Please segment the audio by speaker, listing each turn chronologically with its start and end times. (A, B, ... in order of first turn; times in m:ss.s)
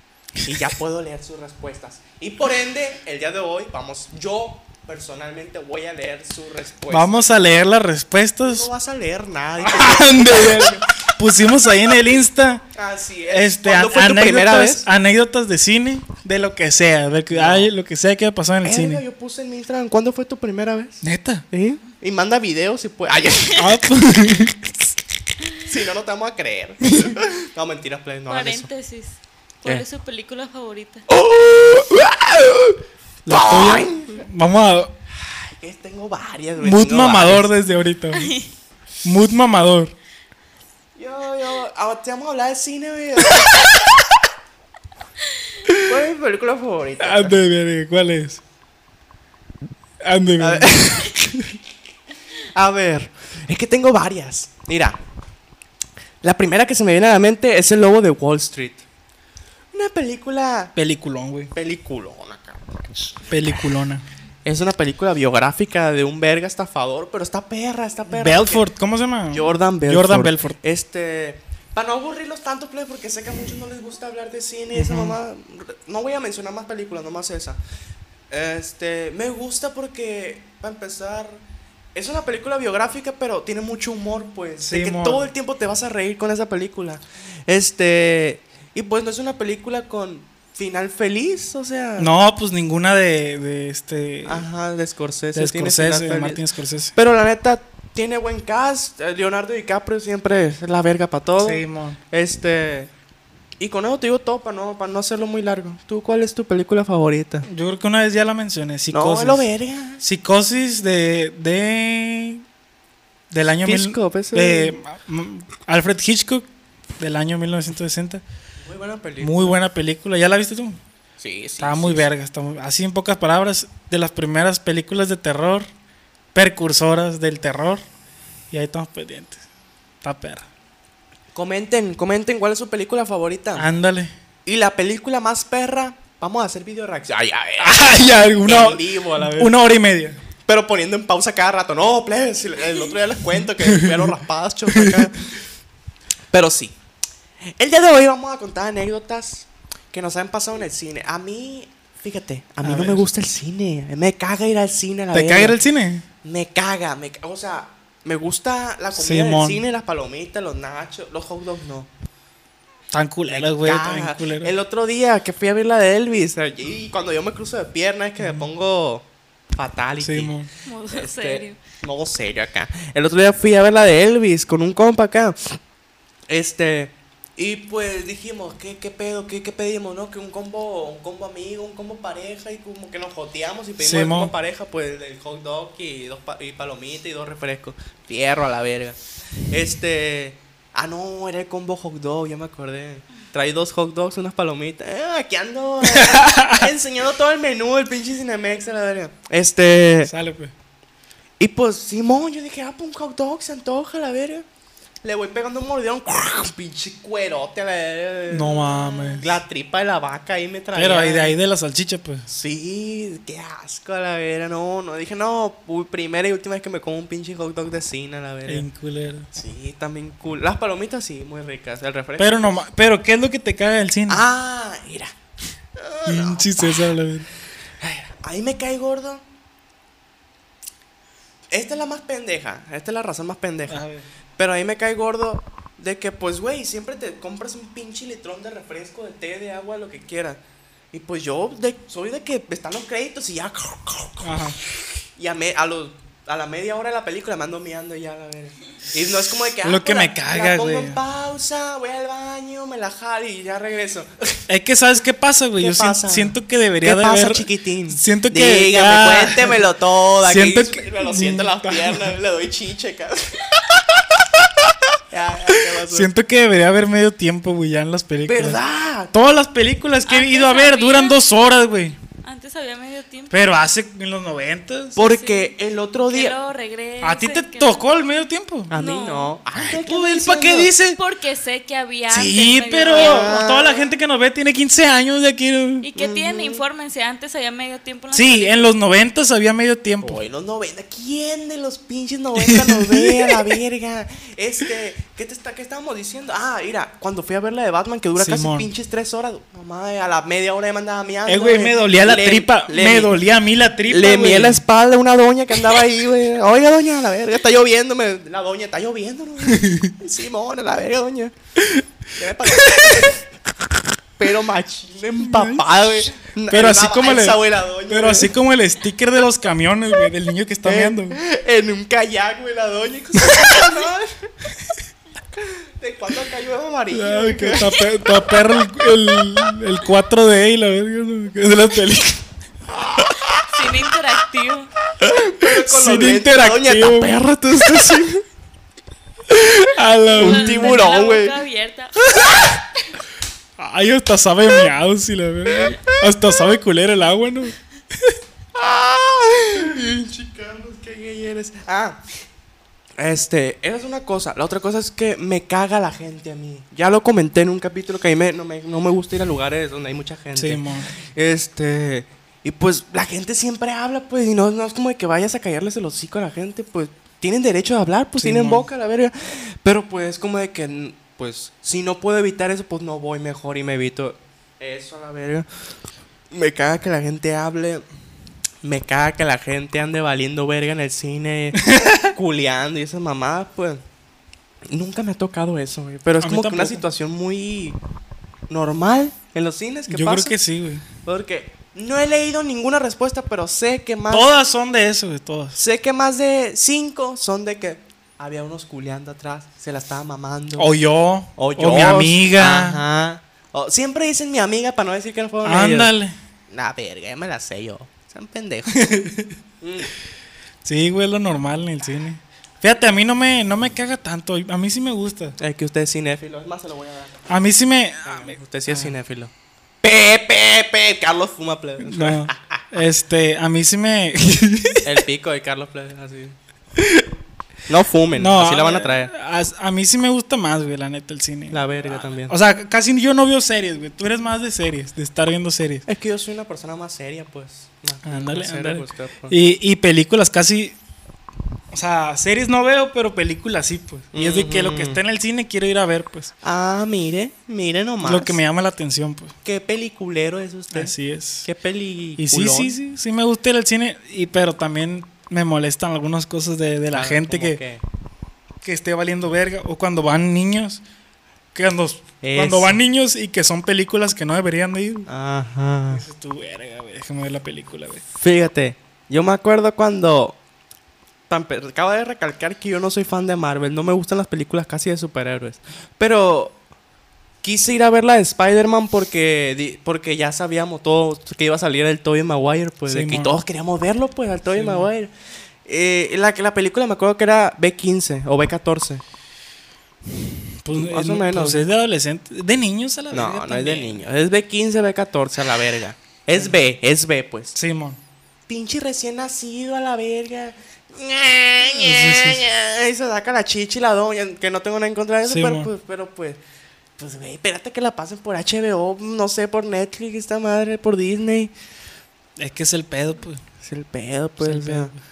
0:00.4-0:07.2 A
0:06.9-0:08.7 B
0:08.4-0:10.8 A
0:09.6-0:12.6 B
0:12.7-0:14.8 A
0:13.3-0:19.0 B
0:17.3-0:17.7 A
0:18.6-0:23.7 A
0:21.0-0:21.4 B
0:23.6-0:24.6 B
0:25.6-0:28.7 A
0:26.9-0:27.2 B
0:28.3-0:31.0 C
0:31.1-0:34.2 A
0:33.2-0:34.9 B
0:35.2-0:37.5 A
0:36.6-0:38.3 B
0:38.1-0:38.5 C
0:39.0-0:39.9 B
0:41.0-0:44.0 A
0:45.8-0:47.4 A
0:47.0-0:48.4 B
0:50.0-0:51.6 B
0:50.4-0:51.1 A
0:52.5-0:55.0 A
0:56.2-0:58.8 A
0:59.7-1:00.7 A
1:00.8-1:01.5 B
1:01.5-1:03.2 A
1:03.3-1:04.0 B
1:04.4-1:08.6 A
1:08.1-1:10.6 B
1:09.3-1:17.6 A
1:14.7-1:15.2 B
1:18.3-1:21.4 A
1:21.9-1:32.1 A
1:24.6-1:25.3 B
1:32.0-1:34.4 B
1:34.2-1:36.4 A
1:35.3-1:36.9 B
1:36.9-1:42.9 A
1:41.4-1:42.0 B
1:43.6-1:47.5 A
1:47.4-1:49.5 B
1:48.9-1:50.0 A
1:50.0-1:52.4 B
1:53.3-1:56.5 B
1:53.6-1:54.7 A
1:57.0-1:58.2 B
1:58.6-1:59.6 A
1:59.2-2:00.8 B
2:01.2-2:02.1 A
2:01.6-2:05.7 B
2:06.3-2:07.8 B
2:08.5-2:09.4 B
2:10.0-2:10.5 B
2:11.3-2:13.6 A
2:13.6-2:14.1 B
2:14.4-2:19.5 A
2:17.6-2:20.2 B
2:20.4-2:25.3 A
2:23.6-2:24.1 B
2:24.7-2:25.1 B
2:26.3-2:26.8 A
2:27.6-2:35.6 A
2:32.6-2:33.0 B
2:35.1-2:36.0 B
2:36.2-2:41.9 A
2:38.9-2:39.6 B
2:42.9-2:44.5 B
2:43.3-2:50.4 A
2:48.2-2:48.4 B
2:50.0-2:50.5 B
2:50.6-2:51.6 C
2:50.9-2:55.6 A
2:56.3-3:09.0 A
3:03.8-3:04.3 B
3:09.5-3:20.1 A
3:15.9-3:16.7 B
3:20.0-3:20.5 B
3:21.4-3:24.4 A
3:25.0-3:31.4 A
3:28.3-3:29.4 B
3:30.7-3:32.3 B
3:32.3-3:38.6 A
3:38.5-3:39.3 B
3:39.3-3:42.6 A
3:42.2-3:44.2 B
3:44.1-3:45.1 A
3:45.8-3:47.0 A
3:46.0-3:47.3 B
3:47.8-3:49.2 A
3:51.5-3:53.8 A
3:53.7-3:54.0 B
3:54.4-4:00.4 A
4:00.9-4:04.5 A
4:04.2-4:04.6 B
4:05.2-4:14.4 A
4:09.6-4:11.0 B
4:14.5-4:19.6 B
4:15.6-4:24.0 A
4:20.2-4:22.2 B
4:25.1-4:26.1 A
4:25.7-4:28.6 B
4:28.2-4:29.1 A
4:29.1-4:32.0 B
4:30.1-4:31.2 C
4:32.2-4:33.3 C
4:33.3-4:35.1 B
4:35.0-4:36.4 A
4:35.0-4:35.5 C
4:36.1-4:37.8 C
4:37.0-4:38.7 B
4:38.7-4:40.7 A
4:38.7-4:39.4 C
4:39.6-4:41.0 B
4:41.0-4:43.4 C
4:42.1-4:45.9 B
4:42.9-4:43.9 A
4:45.8-4:48.8 C
4:46.0-4:46.6 A
4:48.1-4:50.2 B
4:50.0-5:03.2 A
4:52.4-4:53.6 B
4:58.2-4:58.7 B
5:01.3-5:04.6 B
5:03.9-5:11.3 A
5:09.4-5:09.9 B
5:12.2-5:13.2 A
5:12.5-5:13.1 B
5:14.2-5:18.3 A
5:15.2-5:15.6 B
5:16.5-5:21.2 B
5:20.6-5:24.1 A
5:23.2-5:23.6 B
5:25.4-5:27.8 A
5:26.9-5:32.2 B
5:33.5-5:34.7 C
5:35.0-5:38.2 A
5:35.4-5:37.2 B
5:39.3-5:40.8 B
5:40.1-5:42.3 C
5:40.2-5:41.4 A
5:42.1-5:42.6 A
5:43.6-5:48.2 B
5:48.5-5:52.0 A
5:53.0-6:15.4 A
6:00.4-6:00.9 B
6:08.2-6:08.7 B
6:16.3-6:17.8 A
6:18.6-6:23.8 A
6:21.6-6:22.1 B
6:24.7-6:27.8 A
6:26.2-6:26.8 B
6:28.5-6:30.3 A
6:29.9-6:30.8 B
6:31.0-6:34.3 A
6:34.1-6:35.6 B
6:35.6-6:40.7 A
6:40.6-6:42.8 B
6:41.4-6:45.9 A
6:45.4-6:46.1 B
6:46.5-6:48.9 A
6:48.7-6:49.3 B
6:49.6-6:49.9 A
6:50.6-6:55.4 B
6:55.4-6:57.1 A
6:57.3-6:58.9 B
6:58.0-7:02.6 A
7:01.8-7:05.0 B
7:04.8-7:06.4 A
7:06.8-7:07.1 B
7:07.7-7:09.1 A
7:08.1-7:15.8 B
7:11.5-7:12.3 A
7:15.8-7:19.4 A
7:18.0-7:20.8 B
7:21.7-7:26.3 B
7:24.1-7:25.0 A
7:26.4-7:28.4 A
7:28.0-7:29.3 B
7:29.4-7:32.8 A
7:30.7-7:31.5 B
7:32.2-7:37.6 B
7:36.9-7:37.8 A
7:38.6-7:40.8 B
7:41.5-7:45.1 B
7:42.2-7:42.8 A
7:45.1-7:46.0 A
7:45.9-7:48.0 B
7:48.2-7:50.4 A
7:51.3-7:56.5 A
7:57.4-8:05.1 A
8:02.9-8:03.4 B
8:04.5-8:04.9 B
8:05.6-8:09.0 A
8:10.6-8:14.0 B
8:10.7-8:11.6 A
8:13.1-8:17.6 A
8:17.5-8:18.0 B
8:18.5-8:26.4 A
8:21.6-8:22.4 B
8:25.3-8:25.7 B
8:27.0-8:31.5 A
8:32.4-8:33.4 B
8:33.6-8:34.9 A
8:34.4-8:35.0 B